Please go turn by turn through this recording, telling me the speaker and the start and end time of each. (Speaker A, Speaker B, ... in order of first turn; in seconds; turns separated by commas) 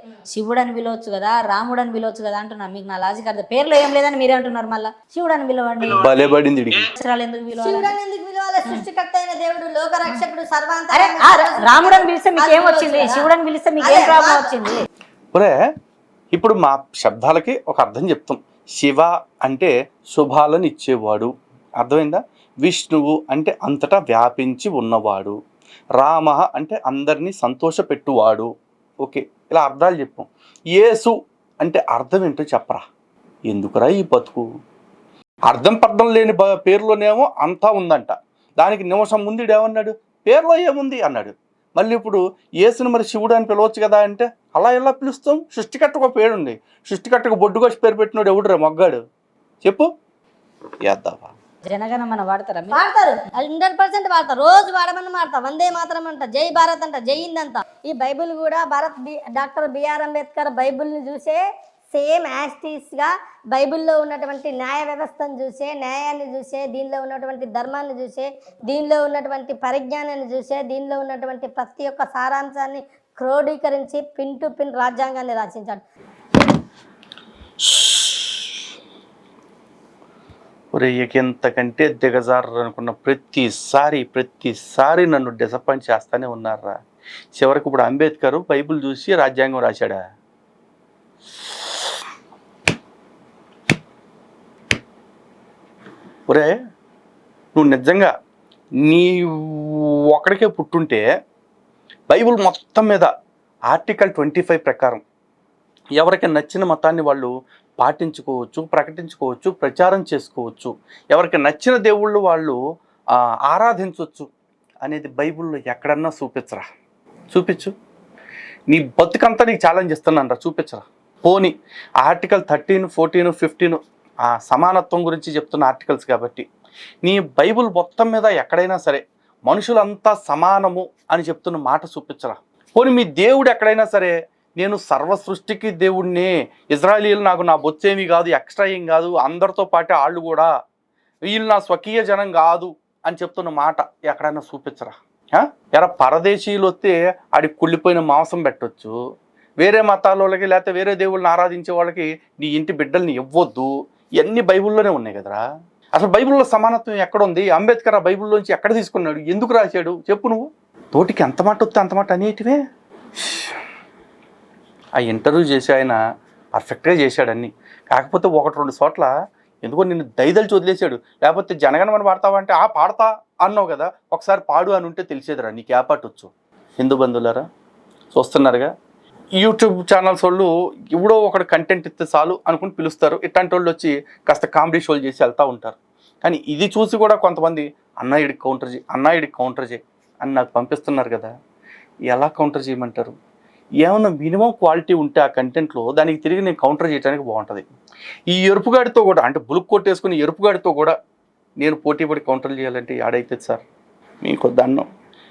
Speaker A: 0.3-6.1, Speaker B: 5.9-6.9, Speaker A: 6.9-7.9, Speaker C: 7.6-13.3, Speaker A: 10.9-14.8, Speaker C: 13.8-14.5, Speaker B: 16.3-25.4, Speaker B: 26.0-28.5, Speaker B: 29.0-32.8, Speaker B: 33.5-34.4, Speaker B: 35.5-49.0, Speaker B: 50.8-51.3, Speaker A: 51.6-52.8, Speaker C: 52.7-61.4, Speaker C: 61.9-75.8, Speaker B: 77.6-78.5, Speaker B: 80.7-86.8, Speaker B: 87.3-90.0, Speaker B: 96.3-96.5, Speaker B: 97.5-98.1, Speaker B: 98.8-101.0, Speaker B: 102.1-103.1, Speaker B: 103.7-105.0, Speaker B: 106.0-112.6, Speaker B: 113.5-114.3, Speaker B: 114.8-116.6, Speaker B: 117.3-117.7, Speaker B: 118.7-126.4, Speaker B: 127.0-140.5, Speaker B: 141.2-148.9, Speaker B: 149.6-155.4, Speaker B: 155.9-162.6, Speaker B: 163.2-163.6, Speaker B: 165.0-166.0, Speaker B: 166.5-169.1, Speaker B: 169.6-177.4, Speaker B: 178.1-178.7, Speaker B: 179.4-191.3, Speaker B: 192.1-193.1, Speaker B: 193.8-197.7, Speaker B: 198.3-200.9, Speaker B: 201.6-203.6, Speaker B: 204.2-204.8